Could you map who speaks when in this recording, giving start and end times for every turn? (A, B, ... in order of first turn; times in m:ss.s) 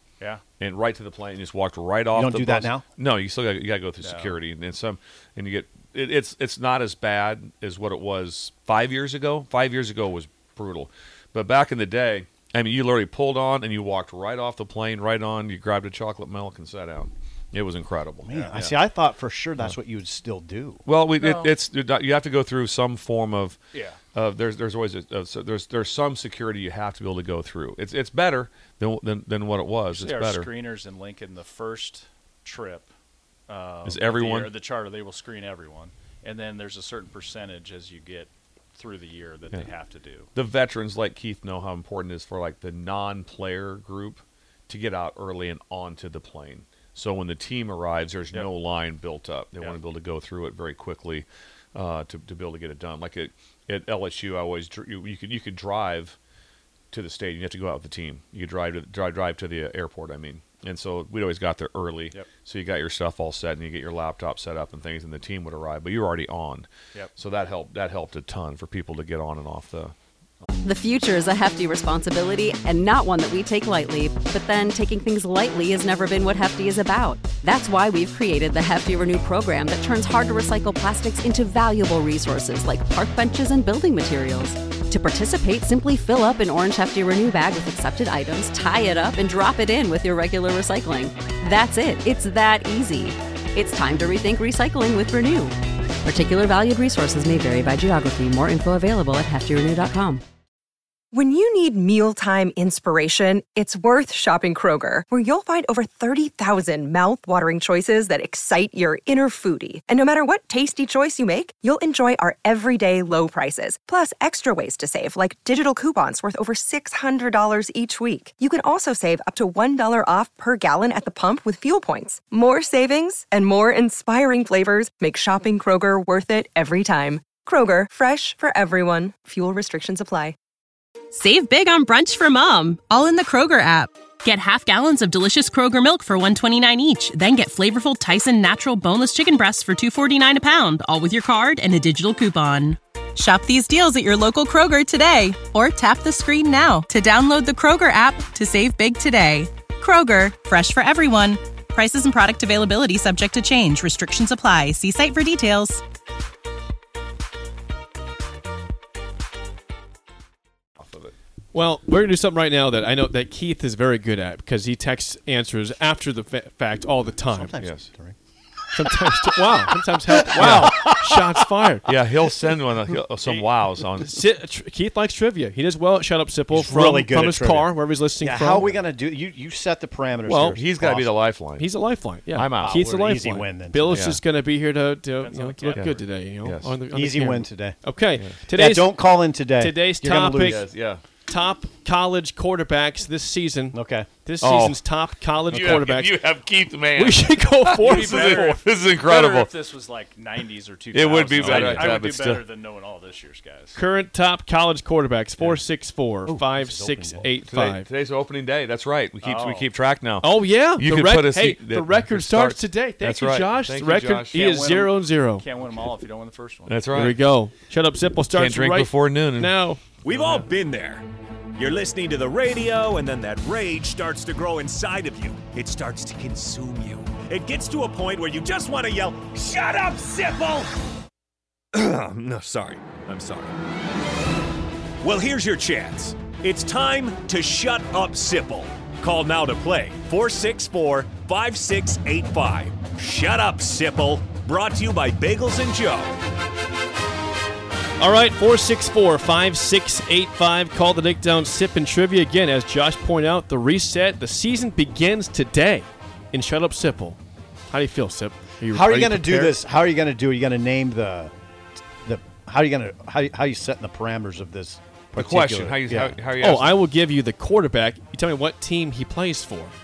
0:00.6-0:18.8 A
0:02.1-0:02.8 B
0:04.0-0:04.4 C
0:18.2-0:20.8 B
0:20.8-0:23.6 A
0:21.2-0:21.5 C
0:23.7-0:24.0 C
0:24.1-0:30.5 A
0:29.9-0:32.9 C
0:33.5-0:40.3 C
0:33.8-0:34.5 A
0:40.3-0:56.2 A
0:56.9-1:09.9 A
1:10.6-1:40.2 D
1:41.1-2:10.3 E
2:11.2-2:31.4 F
2:31.9-2:35.7 F
2:40.8-2:41.1 A
2:41.5-2:47.6 G
2:47.3-2:48.2 B
2:47.6-2:47.9 A
2:48.7-2:51.8 G
2:50.4-2:51.1 B
2:50.4-2:50.8 A
2:51.8-2:54.2 A
2:54.0-2:58.8 G
2:56.5-3:01.1 B
3:00.2-3:00.6 G
3:00.5-3:02.8 A
3:01.6-3:10.6 G
3:02.6-3:04.1 B
3:03.9-3:04.2 A
3:05.2-3:06.2 C
3:05.7-3:06.8 A
3:06.9-3:07.8 B
3:08.5-3:10.6 B
3:10.4-3:11.0 A
3:11.3-3:16.2 G
3:13.7-3:14.1 B
3:14.4-3:14.8 A
3:15.5-3:19.5 A
3:16.9-3:18.6 G
3:17.8-3:23.8 C
3:20.9-3:22.4 A
3:21.4-3:22.0 G
3:23.7-3:27.9 G
3:26.2-3:27.3 B
3:27.5-3:34.4 A
3:29.2-3:29.7 C
3:30.2-3:35.4 G
3:34.3-3:36.8 C
3:36.7-3:37.2 A
3:36.9-3:39.8 G
3:38.3-3:39.6 A
3:40.0-3:50.7 H
3:40.1-3:40.5 C
3:51.8-3:53.4 A
3:52.0-3:53.4 H
3:55.0-4:06.2 H
4:08.0-4:19.6 G
4:18.7-4:21.3 B
4:22.0-4:26.2 B
4:25.1-4:26.8 A
4:26.4-4:29.7 G